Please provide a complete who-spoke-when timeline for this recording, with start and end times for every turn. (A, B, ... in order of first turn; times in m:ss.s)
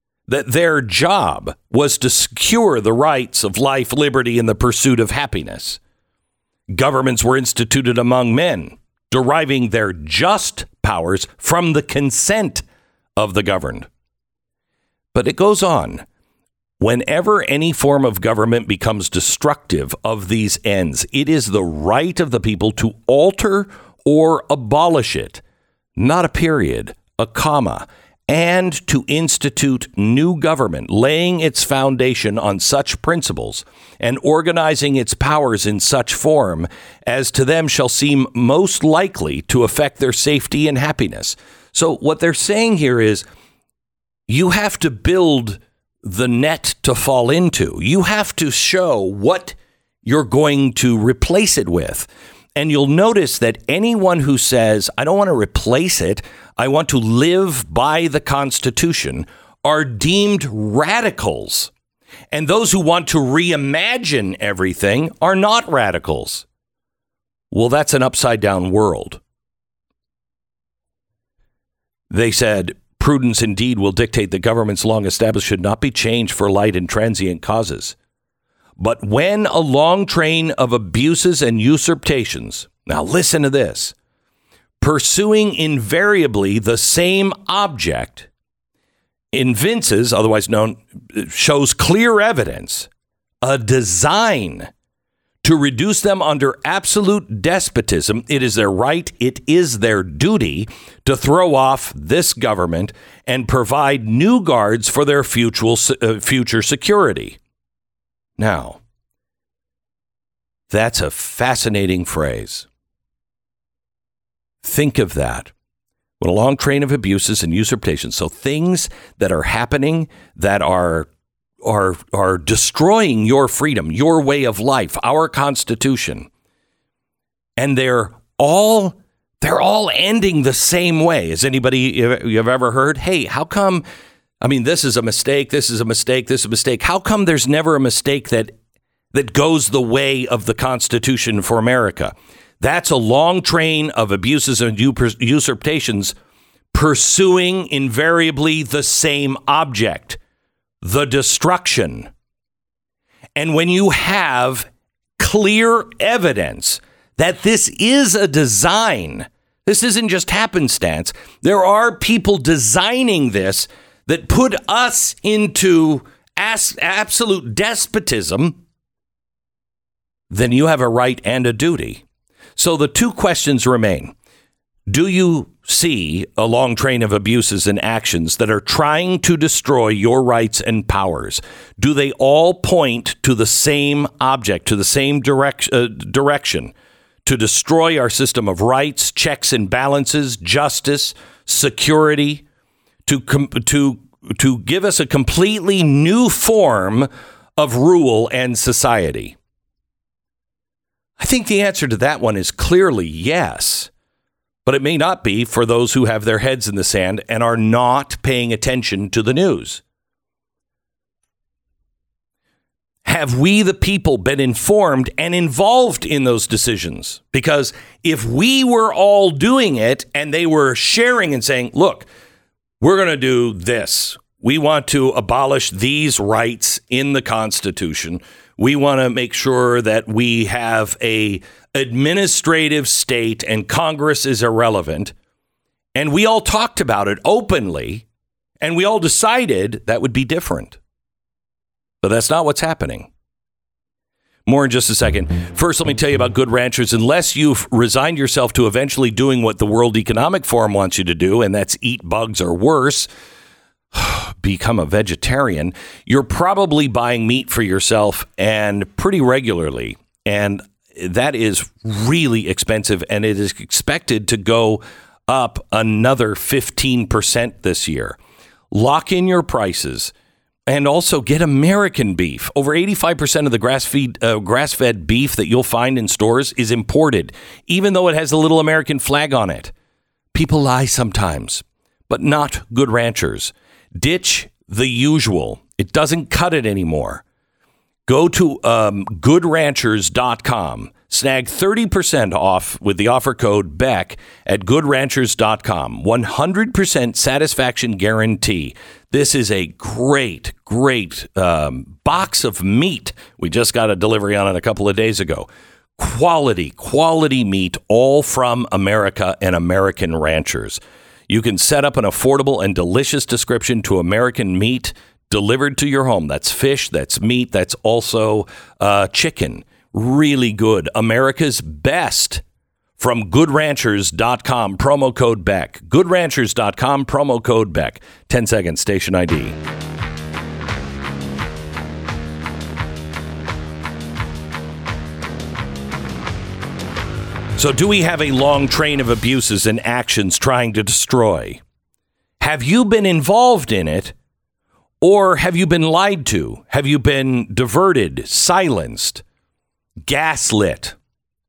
0:00.3-0:05.8 A
0:06.7-0:12.6 A
0:13.2-0:13.9 A
0:15.1-0:16.0 A
0:16.8-0:25.4 A
0:26.0-0:43.2 A
0:44.3-1:01.7 A
1:02.3-1:06.5 A
1:07.5-1:09.2 A
1:12.1-1:18.0 A
1:18.8-1:23.9 A
1:24.8-1:28.3 A
1:29.3-1:32.9 A
1:33.4-1:34.7 A
1:35.4-1:47.4 A
1:48.4-1:48.8 A
1:50.7-1:52.7 A
1:54.6-1:55.5 A
1:56.2-2:01.1 A
2:01.6-2:06.3 A
2:07.6-2:13.8 A
2:14.4-2:18.5 A
2:19.1-2:26.2 A
2:26.7-2:30.2 A
2:30.8-2:32.1 A
2:33.4-2:48.6 A
2:50.3-2:52.0 A
2:52.6-2:54.1 A
2:54.9-3:06.7 A
3:07.2-3:12.4 A
3:13.1-3:19.4 A
3:21.2-3:23.9 A
3:24.6-3:29.8 A
3:33.0-3:42.1 A
3:42.8-3:55.1 A
3:56.0-3:58.0 A
3:58.6-4:00.8 A
4:02.0-4:03.1 A
4:04.5-4:13.1 A
4:13.9-4:28.2 A
4:28.7-4:30.1 A
4:30.7-4:39.7 A
4:40.3-4:47.2 A
4:48.1-5:22.4 A
5:23.0-5:29.6 A
5:37.6-5:41.6 A
5:42.4-5:44.2 A
5:45.0-5:49.2 A
5:50.1-5:51.0 A